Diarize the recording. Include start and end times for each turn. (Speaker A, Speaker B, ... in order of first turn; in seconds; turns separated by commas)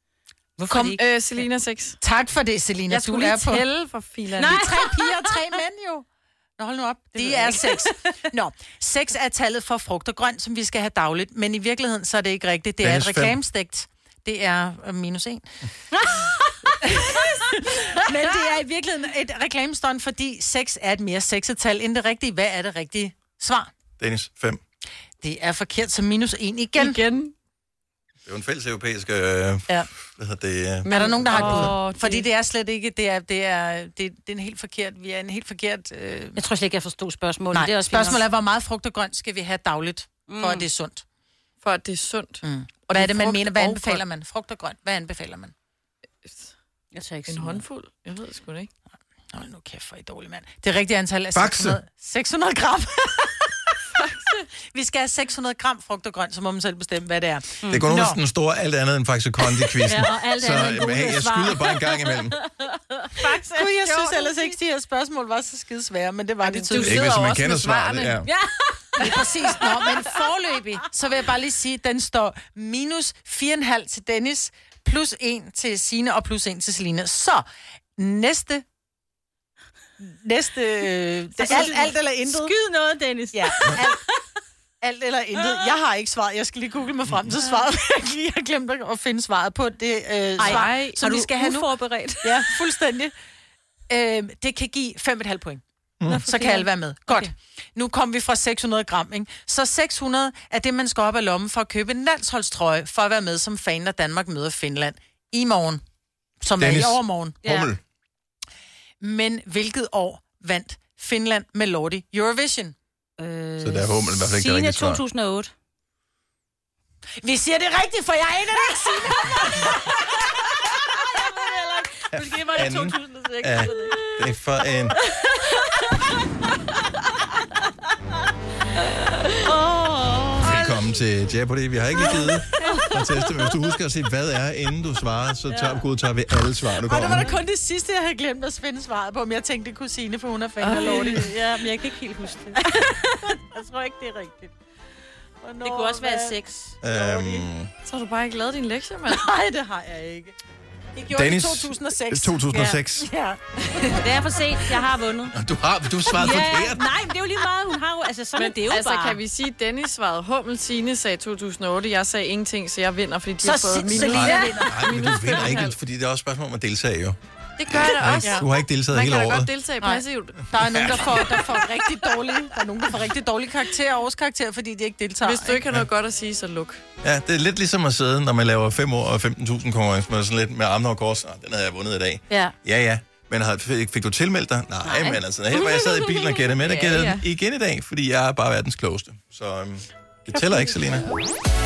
Speaker A: 0.6-1.3, Speaker B: 0.7-1.0, Speaker C: 1.0-2.0, Speaker B: 2.0-6.1, Speaker C: 2.9-4.7, Speaker A: 4.4-5.6, Speaker B: 6.6-15.5, Speaker A: 7.2-8.2, Speaker D: 12.8-13.4, Speaker A: 15.9-18.4, Speaker B: 16.8-23.7, Speaker D: 24.0-24.6, Speaker B: 25.2-27.0, Speaker C: 26.8-27.3, Speaker D: 28.3-30.9, Speaker C: 30.8-32.3, Speaker B: 30.9-36.4, Speaker A: 31.3-31.6, Speaker A: 36.4-38.3, Speaker B: 37.5-41.0, Speaker A: 40.3-40.7, Speaker C: 41.6-44.0, Speaker B: 42.4-45.5, Speaker C: 46.2-46.5, Speaker A: 46.9-47.6, Speaker C: 47.3-48.7, Speaker B: 49.3-53.8, Speaker D: 51.3-51.8, Speaker C: 54.0-54.3, Speaker B: 54.7-58.2, Speaker D: 57.7-62.4, Speaker A: 59.8-64.6, Speaker B: 63.1-67.0, Speaker C: 66.5-68.2, Speaker A: 66.7-67.0, Speaker D: 66.8-68.3, Speaker A: 68.2-70.8, Speaker C: 69.0-69.2, Speaker B: 69.0-77.4, Speaker B: 78.0-78.7, Speaker B: 80.0-82.5, Speaker A: 81.4-84.3, Speaker B: 83.3-84.0, Speaker B: 84.8-91.7, Speaker A: 85.3-85.8, Speaker A: 90.4-92.6, Speaker C: 90.4-91.0, Speaker B: 92.2-93.1, Speaker B: 93.9-105.8, Speaker A: 96.1-97.3, Speaker B: 106.4-107.4, Speaker D: 106.6-107.8, Speaker A: 107.4-107.7, Speaker B: 109.0-112.8, Speaker A: 113.2-115.5, Speaker D: 113.6-115.0, Speaker B: 117.2-120.1, Speaker A: 120.9-124.3, Speaker D: 122.5-125.0, Speaker A: 125.4-126.1, Speaker A: 128.9-130.9, Speaker D: 130.4-137.3, Speaker A: 132.0-133.4, Speaker B: 132.6-132.8, Speaker A: 135.5-135.8, Speaker B: 136.7-141.6, Speaker A: 137.1-137.4, Speaker C: 140.6-141.3, Speaker A: 140.7-142.6, Speaker B: 142.5-144.5, Speaker A: 143.9-144.2, Speaker B: 145.4-147.5, Speaker A: 145.6-146.8, Speaker D: 146.8-147.7, Speaker C: 147.8-149.2, Speaker B: 149.1-150.3, Speaker B: 150.9-154.1, Speaker D: 151.1-153.1, Speaker A: 152.5-152.8, Speaker A: 153.9-155.3, Speaker D: 155.3-156.9, Speaker A: 156.1-159.2, Speaker C: 158.4-165.8, Speaker B: 163.4-164.8, Speaker A: 163.8-164.7, Speaker D: 164.0-167.2, Speaker C: 167.6-171.3, Speaker D: 167.8-169.5, Speaker B: 169.8-175.6, Speaker D: 170.7-171.1, Speaker C: 175.2-176.8, Speaker D: 177.0-191.1, Speaker A: 184.8-186.3, Speaker C: 186.6-187.2